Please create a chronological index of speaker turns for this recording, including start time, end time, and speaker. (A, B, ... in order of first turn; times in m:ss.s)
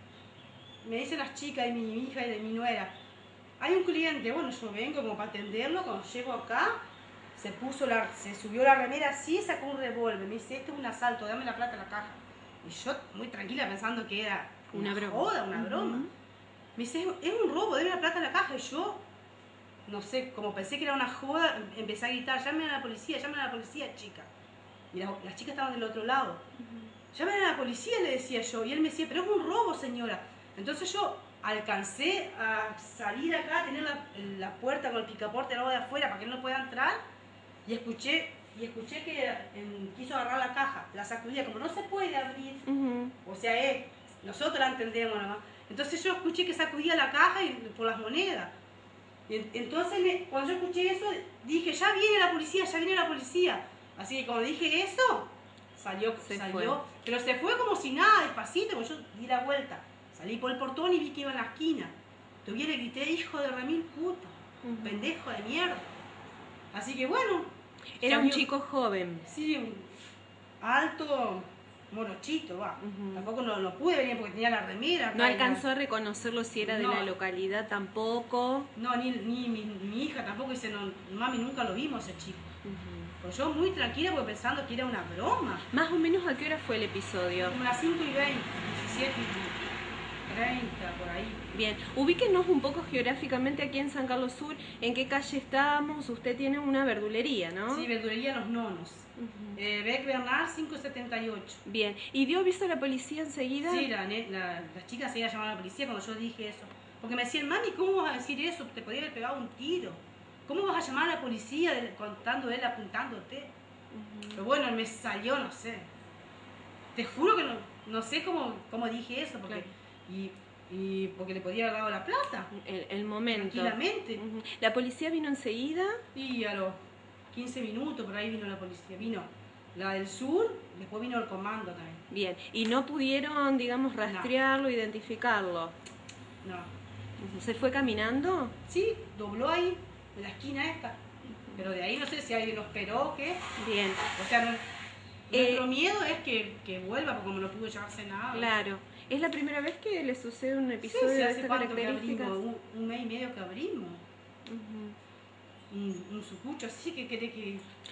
0:00.8-0:02.9 A
0:03.6-0:06.8 A
0:07.4-0:16.1 A
0:14.7-0:16.1 B
0:16.8-0:19.0 A
0:19.9-0:24.3 A
0:24.9-0:26.5 A
0:27.1-0:37.0 A
0:37.7-0:42.6 A
0:42.7-0:43.2 B
0:43.2-0:48.5 A
0:49.3-1:05.9 A
0:56.2-0:56.8 B
1:04.6-1:05.1 B
1:06.7-1:08.5 A
1:08.0-1:09.3 B
1:09.3-1:09.9 A
1:10.6-1:15.6 A
1:12.8-1:13.3 B
1:15.1-1:18.7 B
1:16.6-1:17.1 A
1:18.8-1:22.5 A
1:22.6-1:23.2 B
1:23.2-1:25.7 A
1:25.7-1:27.6 B
1:27.4-1:29.6 A
1:30.3-1:31.4 A
1:31.5-1:37.9 B
1:37.7-1:41.6 A
1:39.2-1:39.6 B
1:41.6-1:43.9 B
1:43.6-1:53.5 A
1:53.9-1:54.4 B
1:54.4-1:55.9 A
1:57.0-2:02.5 A
2:02.5-2:06.0 B
2:03.3-2:04.2 A
2:06.2-2:06.8 A
2:07.3-2:12.0 A
2:12.1-2:15.8 B
2:14.0-2:14.3 A
2:16.4-2:16.7 A
2:17.2-2:18.6 B
2:18.7-2:23.4 A
2:23.6-2:24.0 B
2:24.2-2:24.6 A
2:25.3-2:28.5 A
2:25.3-2:25.7 B
2:28.3-2:32.4 B
2:30.8-2:34.0 A
2:34.5-2:35.0 B
2:35.7-2:37.7 A